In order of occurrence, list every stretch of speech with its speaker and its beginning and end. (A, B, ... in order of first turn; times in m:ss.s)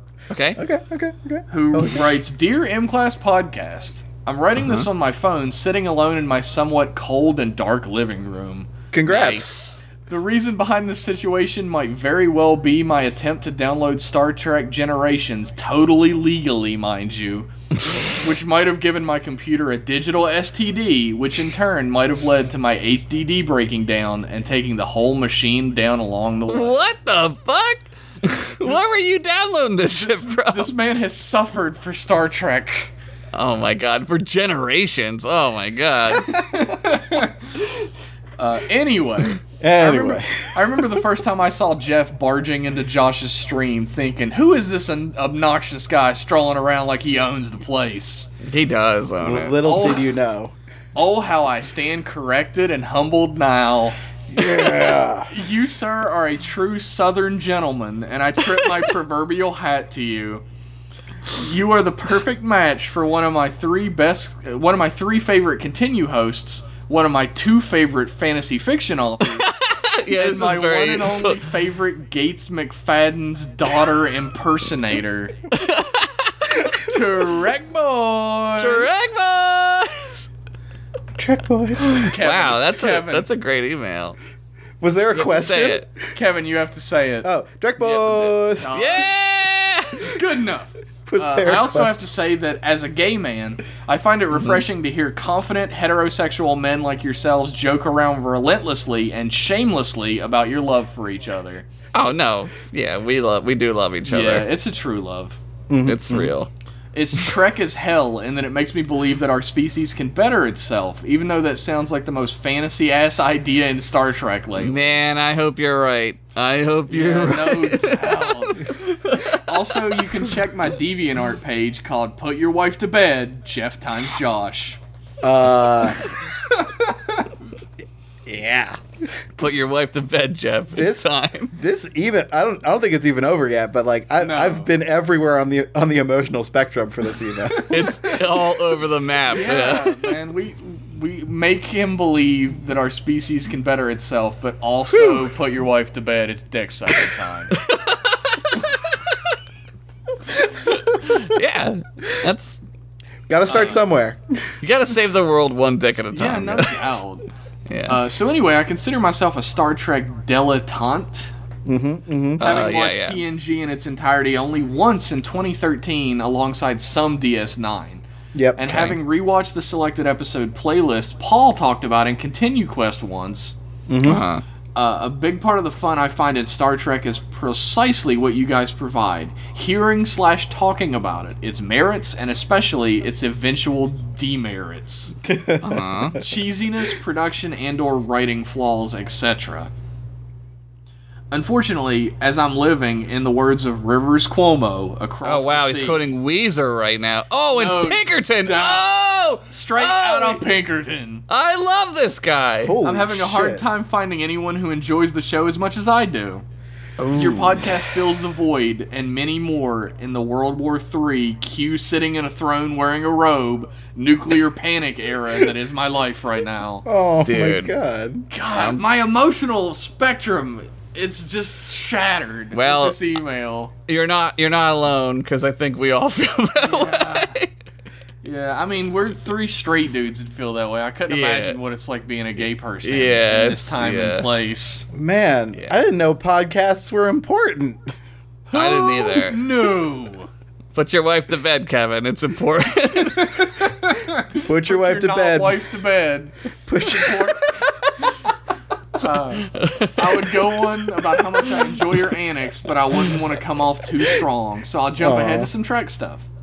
0:00.3-0:00.6 A
0:00.6-0:02.1 B
0:01.5-0:09.2 C
0:04.6-0:04.8 A
0:08.9-0:09.5 B
0:09.1-0:09.8 A
0:10.1-0:26.9 C
0:26.5-0:30.7 A
0:29.9-0:32.9 C
0:33.3-0:36.7 A
0:36.2-0:37.7 C
0:38.4-0:48.3 C
0:39.6-0:40.8 B
0:48.4-0:49.6 A
0:49.2-0:50.5 B
0:49.6-0:50.1 C
0:50.9-0:54.0 C
0:54.3-0:55.3 B
0:55.3-1:00.4 C
1:01.3-1:15.4 C
1:09.2-1:11.5 A
1:15.5-1:16.7 A
1:16.7-1:18.9 C
1:18.6-1:20.3 A
1:21.2-1:22.0 B
1:21.8-1:24.2 A
1:21.9-1:23.2 C
1:24.8-1:25.9 B
1:25.1-1:25.8 A
1:26.1-1:27.3 C
1:27.2-1:28.7 B
1:27.8-1:29.1 C
1:28.7-1:30.2 A
1:30.0-1:41.7 C
1:31.1-1:32.0 B
1:34.4-1:34.6 A
1:41.9-1:44.5 A
1:44.0-1:45.4 C
1:45.7-1:46.3 B
1:45.8-1:46.5 A
1:46.9-1:54.9 C
1:54.6-2:00.3 A
1:56.9-2:04.8 C
2:05.2-2:06.0 B
2:06.5-2:07.2 C
2:08.2-2:08.8 B
2:09.4-2:11.5 A
2:10.7-2:17.9 B
2:14.2-2:14.7 C
2:17.5-2:18.2 C
2:17.7-2:20.1 A
2:19.3-2:27.6 C
2:27.5-2:29.3 A
2:30.4-2:32.6 A
2:33.3-2:34.5 B
2:33.5-2:33.8 C
2:34.6-2:37.0 A
2:36.1-2:37.2 C
2:37.7-2:38.0 A
2:37.9-2:41.3 C
2:41.6-2:42.6 B
2:42.4-2:43.2 A
2:42.4-2:48.0 C
2:48.3-2:48.8 B
2:48.6-2:53.6 C
2:48.7-2:49.0 A
2:53.9-2:54.2 B
2:54.0-2:54.4 A
2:54.7-3:05.1 C
3:05.2-3:06.0 B
3:05.6-3:06.2 A
3:06.1-3:09.7 C
3:11.3-3:16.0 C
3:15.2-3:20.4 A
3:17.5-3:18.9 C
3:19.4-3:21.2 C
3:21.3-3:22.8 A
3:22.6-3:23.6 B
3:22.8-3:26.4 C
3:27.0-3:27.9 A
3:27.1-3:36.8 C
3:36.8-3:38.3 B
3:37.2-3:37.7 A
3:38.3-3:43.7 C
3:38.5-3:38.8 A
3:42.5-3:43.0 A
3:43.9-3:47.5 A
3:46.6-3:47.4 C
3:48.2-3:54.8 C
3:51.1-3:51.6 A
3:52.8-3:54.3 A
3:54.9-3:57.9 B
3:58.5-4:00.3 C
3:58.5-3:59.4 A
4:00.7-4:03.7 A
4:03.3-4:07.4 C
4:04.4-4:05.6 B
4:06.7-4:07.4 B
4:08.9-4:16.3 C
4:09.5-4:10.8 A
4:15.0-4:15.5 B